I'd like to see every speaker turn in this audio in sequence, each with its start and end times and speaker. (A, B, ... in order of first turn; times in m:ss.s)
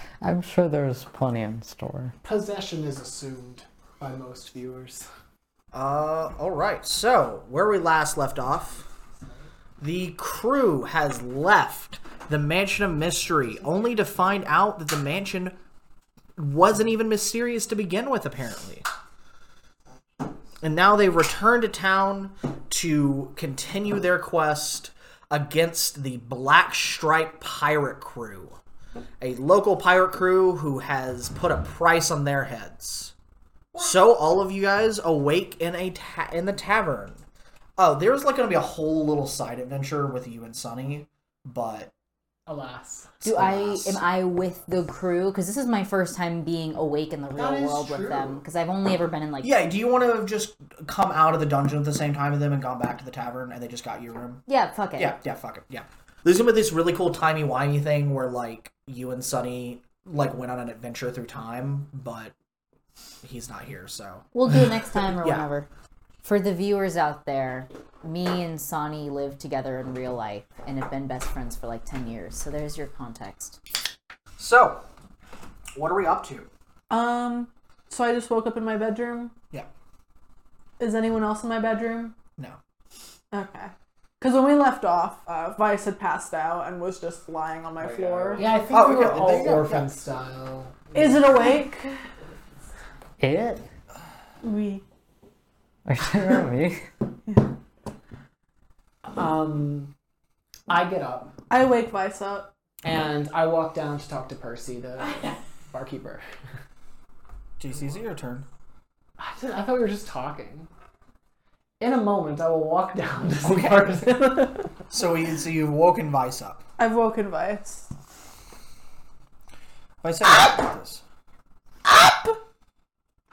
0:00.2-0:02.2 A
0:02.2-0:05.1 B
0:05.7-0:08.9 C
0:09.8-0:15.6 C
0:16.4-0:18.9 C
0:20.6-0:28.6 C
0:29.2-0:33.1 C
0:33.8-0:37.2 C
0:37.8-0:41.9 C
0:42.5-0:43.2 B
0:43.2-0:44.0 C
0:43.2-0:49.5 D
0:47.3-0:48.4 B
0:49.4-0:54.4 C
0:54.5-0:55.1 D
0:55.0-1:02.3 C
1:03.2-1:04.3 C
1:04.3-1:05.7 D
1:06.2-1:13.6 D
1:14.4-1:14.8 C
1:15.8-1:16.5 C
1:16.9-1:19.3 E
1:20.8-1:22.2 E
1:23.3-1:28.5 E
1:27.8-1:31.2 B
1:28.7-1:29.9 C
1:31.0-1:31.9 E
1:33.2-1:33.6 A
1:34.4-1:34.8 E
1:35.9-1:36.9 A
1:39.1-1:39.9 B
1:40.7-1:41.3 B
1:41.5-1:42.5 E
1:42.8-1:46.2 B
1:47.6-1:48.5 C
1:49.2-1:50.7 B
1:51.8-1:54.7 B
1:53.4-1:53.9 C
1:54.9-1:56.6 C
1:56.8-1:57.9 E
2:00.0-2:01.0 C
2:01.9-2:02.4 E